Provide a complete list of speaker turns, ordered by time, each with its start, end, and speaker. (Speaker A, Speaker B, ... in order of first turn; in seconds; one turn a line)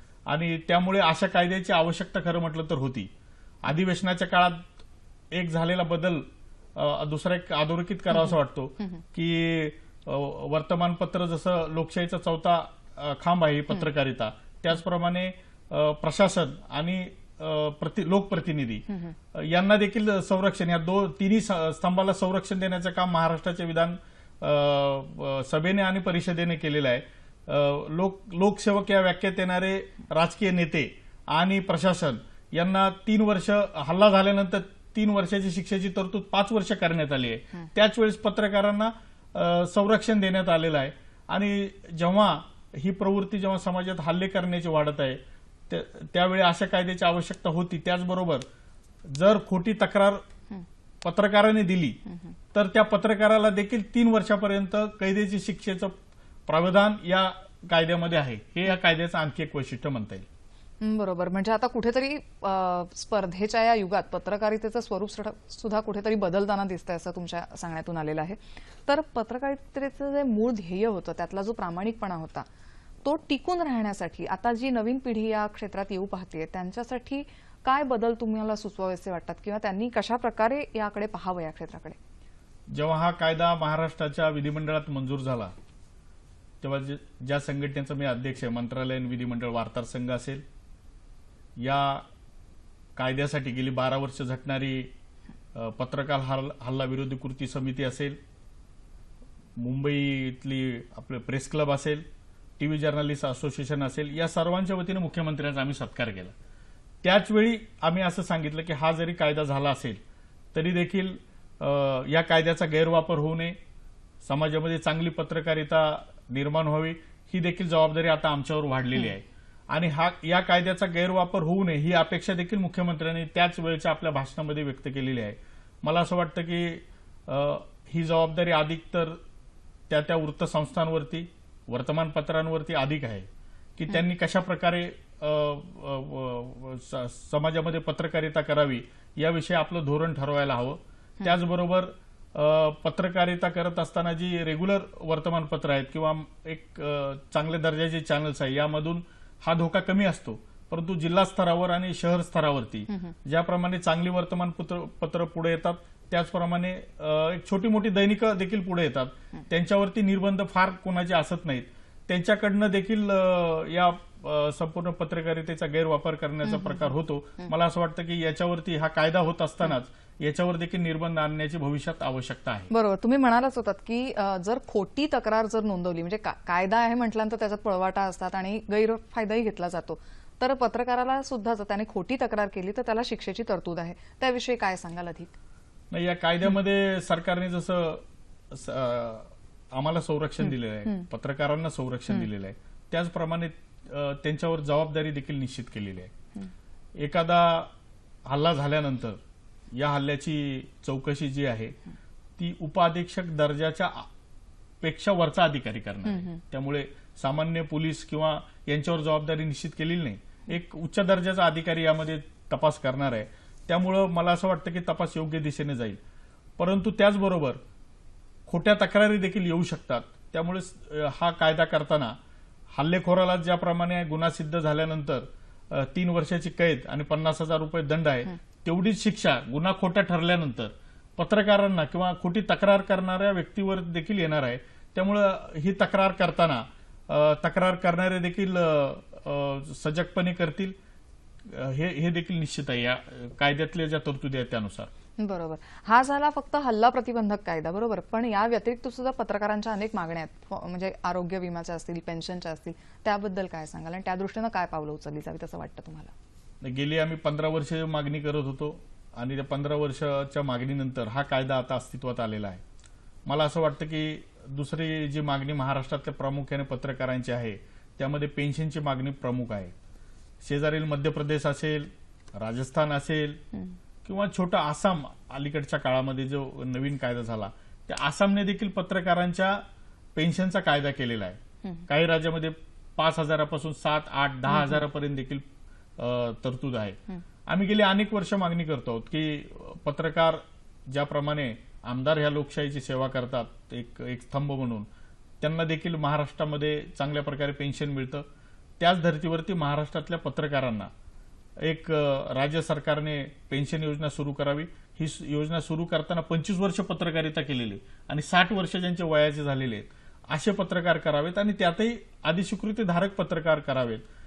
Speaker A: 0.3-3.1
Speaker A: 3.6-4.6
Speaker A: 5.3-48.4
Speaker A: 49.0-50.2
Speaker A: 51.0-52.0
Speaker A: 52.5-55.9
Speaker A: 56.5-60.2
Speaker B: 60.8-72.5
Speaker B: 73.0-82.0
Speaker A: 82.7-85.5
Speaker A: 86.6-90.4
Speaker A: 91.6-92.0
Speaker A: 93.0-94.9
Speaker A: 95.5-98.2
Speaker A: 99.6-102.0
Speaker A: 102.6-106.3
Speaker A: 107.0-110.0
Speaker A: 110.5-113.6
Speaker A: 114.2-129.2
Speaker A: 129.9-172.7
Speaker B: 166.4-166.9
Speaker B: 172.7-185.3
Speaker A: 185.9-196.1
Speaker B: 190.4-191.1
Speaker A: 197.0-197.7
Speaker A: 198.2-199.2
Speaker A: 199.7-201.8
Speaker A: 202.4-204.1
Speaker A: 204.8-216.0
Speaker B: 206.1-206.4
Speaker A: 216.6-217.6
Speaker A: 218.5-222.2
Speaker A: 222.7-240.8
Speaker A: 241.4-244.9
Speaker B: 245.2-256.1
Speaker A: 256.6-262.6
Speaker A: 263.3-269.7
Speaker A: 270.4-273.4
Speaker A: 274.0-279.6
Speaker A: 280.1-285.4
Speaker B: 284.5-284.9
Speaker A: 286.0-294.9
Speaker A: 295.4-298.2
Speaker A: 298.8-300.9
Speaker A: 301.6-314.0